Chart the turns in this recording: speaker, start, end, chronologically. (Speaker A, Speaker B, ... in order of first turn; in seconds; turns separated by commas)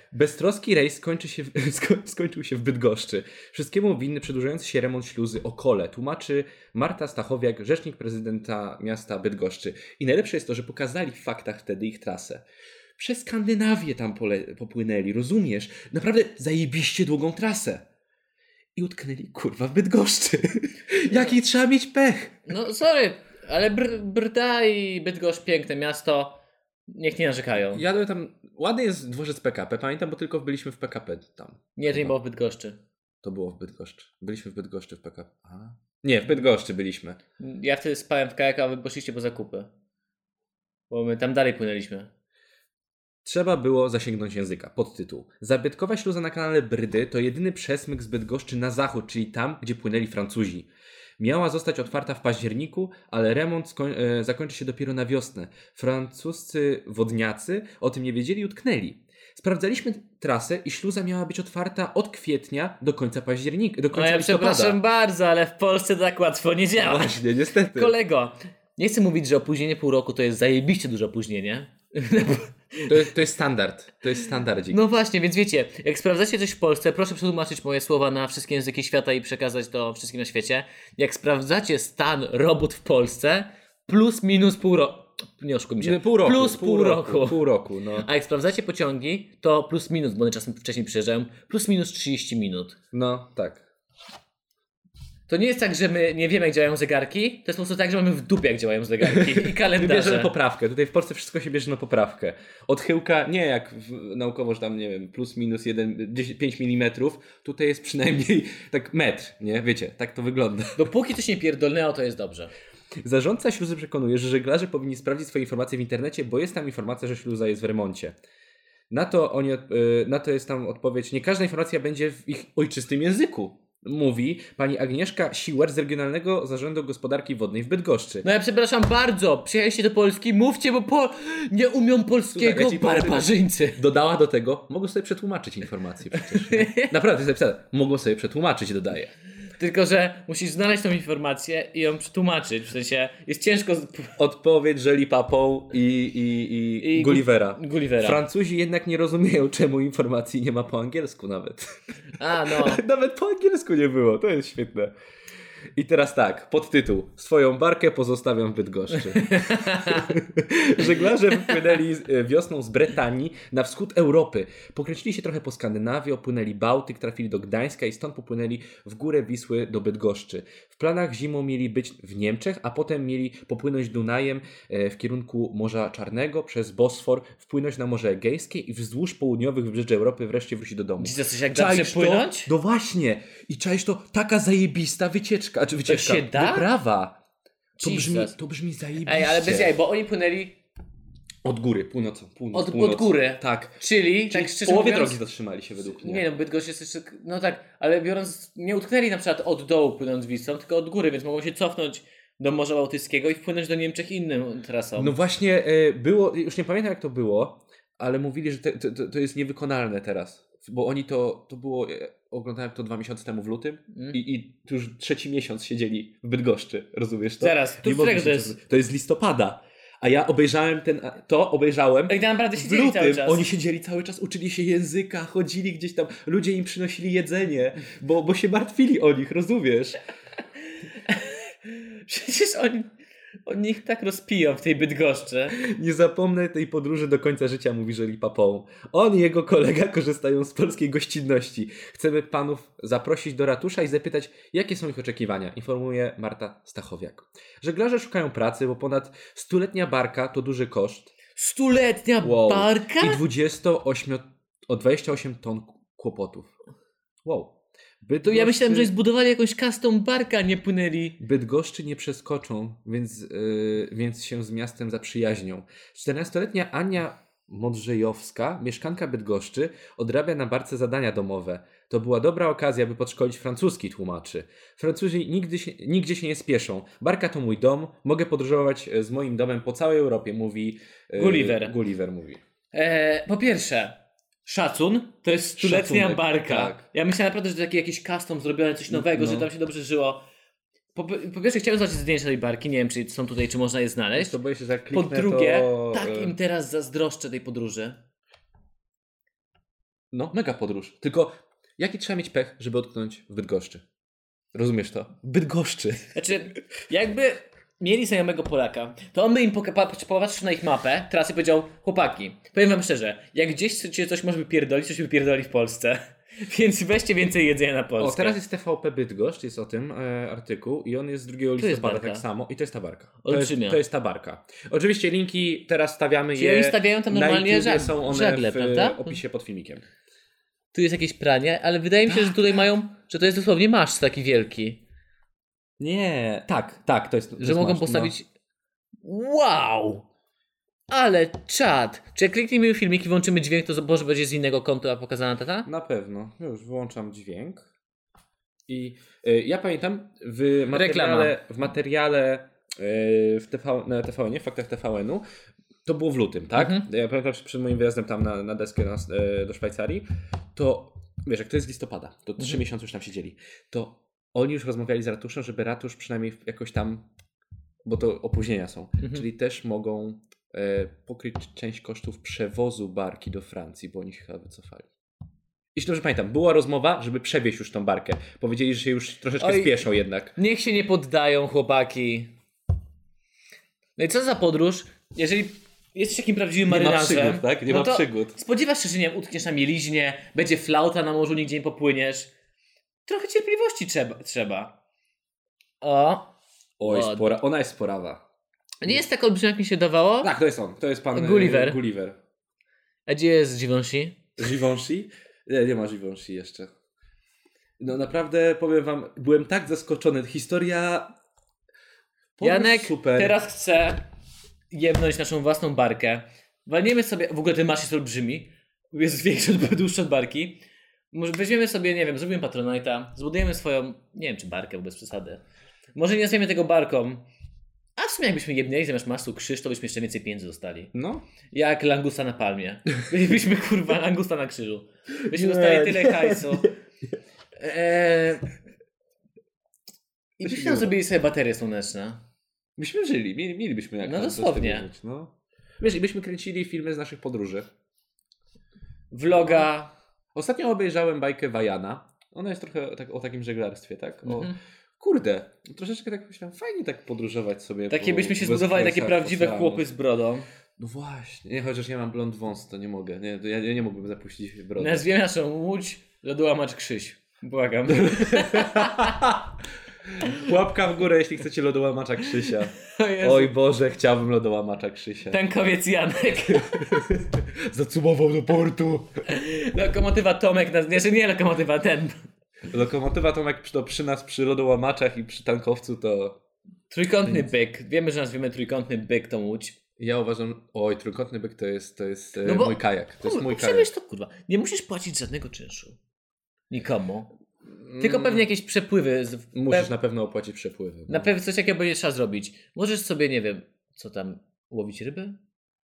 Speaker A: 0.1-12.4, Speaker A: 13.0-17.9, Speaker A: 18.8-22.4, Speaker B: 22.5-26.4, Speaker B: 26.9-27.8, Speaker A: 27.7-32.1, Speaker B: 31.8-32.8, Speaker A: 33.2-37.2, Speaker B: 37.4-39.7, Speaker B: 40.9-42.1, Speaker A: 43.2-64.8, Speaker B: 63.9-73.1, Speaker A: 66.8-67.9, Speaker A: 72.8-74.8, Speaker B: 74.7-87.4, Speaker A: 85.8-88.1, Speaker B: 88.0-92.8, Speaker A: 92.9-93.7, Speaker B: 95.3-100.3, Speaker A: 99.0-110.9, Speaker B: 110.8-112.5, Speaker A: 113.0-118.2, Speaker A: 118.9-128.2, Speaker B: 128.2-133.8, Speaker A: 132.3-139.1, Speaker B: 136.2-136.9, Speaker B: 139.6-144.2, Speaker A: 144.2-151.8, Speaker B: 146.8-148.2, Speaker B: 152.2-152.8, Speaker A: 152.4-154.9, Speaker A: 155.8-187.2, Speaker B: 159.1-160.1, Speaker B: 181.0-182.5, Speaker B: 185.9-186.7, Speaker B: 187.8-188.3, Speaker A: 187.8-189.7, Speaker B: 189.0-190.6, Speaker A: 191.4-196.2, Speaker B: 192.5-195.2, Speaker B: 196.0-205.2, Speaker A: 205.0-230.0, Speaker B: 213.9-214.2, Speaker B: 217.4-218.6, Speaker B: 222.1-223.5, Speaker B: 230.9-232.9, Speaker B: 233.5-235.6, Speaker A: 235.5-251.1, Speaker B: 251.4-253.2, Speaker A: 252.2-256.5, Speaker A: 257.2-258.9, Speaker B: 258.2-261.2, Speaker A: 261.2-282.4, Speaker B: 281.2-281.8, Speaker B: 282.7-290.2, Speaker A: 285.6-286.8, Speaker A: 288.9-289.5, Speaker B: 290.9-294.4, Speaker A: 294.2-296.4, Speaker B: 294.9-298.0, Speaker A: 300.1-303.8, Speaker A: 304.5-306.1, Speaker B: 306.1-318.4, Speaker A: 318.0-329.9, Speaker B: 321.6-322.2, Speaker B: 323.2-323.8, Speaker B: 326.4-329.2, Speaker B: 330.7-334.8, Speaker A: 332.1-332.4, Speaker A: 335.8-338.1, Speaker B: 337.4-338.3, Speaker B: 339.0-340.1, Speaker B: 340.9-345.7, Speaker A: 345.7-347.7, Speaker A: 348.7-355.2, Speaker B: 350.7-351.4, Speaker A: 355.9-367.1, Speaker B: 356.6-356.9, Speaker A: 367.8-374.9, Speaker A: 375.8-380.4, Speaker B: 379.4-379.8, Speaker B: 380.4-382.3, Speaker B: 384.0-392.3, Speaker A: 386.7-388.4, Speaker B: 393.1-394.7, Speaker B: 395.8-396.3, Speaker A: 396.8-398.2, Speaker B: 396.8-397.3, Speaker B: 398.8-400.3, Speaker A: 400.2-402.2, Speaker B: 401.1-401.8, Speaker B: 403.1-404.2, Speaker A: 404.4-406.7, Speaker A: 407.8-411.1, Speaker A: 412.4-413.4, Speaker B: 412.4-414.0, Speaker B: 414.7-420.6, Speaker B: 421.1-425.4, Speaker B: 425.9-427.2, Speaker B: 428.0-430.9, Speaker A: 430.9-431.2, Speaker B: 431.5-436.7, Speaker A: 435.3-437.2, Speaker B: 437.6-438.5, Speaker B: 440.4-442.2, Speaker A: 440.4-440.9, Speaker A: 442.8-447.7, Speaker B: 444.0-444.9, Speaker B: 449.1-449.9, Speaker A: 450.4-459.9, Speaker B: 454.2-454.6, Speaker B: 457.9-460.5, Speaker A: 460.8-465.0, Speaker B: 464.8-469.2, Speaker A: 467.9-469.6, Speaker A: 470.1-475.4, Speaker B: 472.8-473.5, Speaker B: 475.3-477.0, Speaker A: 476.5-479.2, Speaker B: 479.3-482.2, Speaker A: 482.7-486.4, Speaker B: 486.9-489.8, Speaker A: 490.0-493.9, Speaker B: 492.4-496.0, Speaker B: 496.7-497.3, Speaker A: 497.8-498.4, Speaker B: 498.0-499.9, Speaker A: 499.5-501.3, Speaker B: 501.1-505.4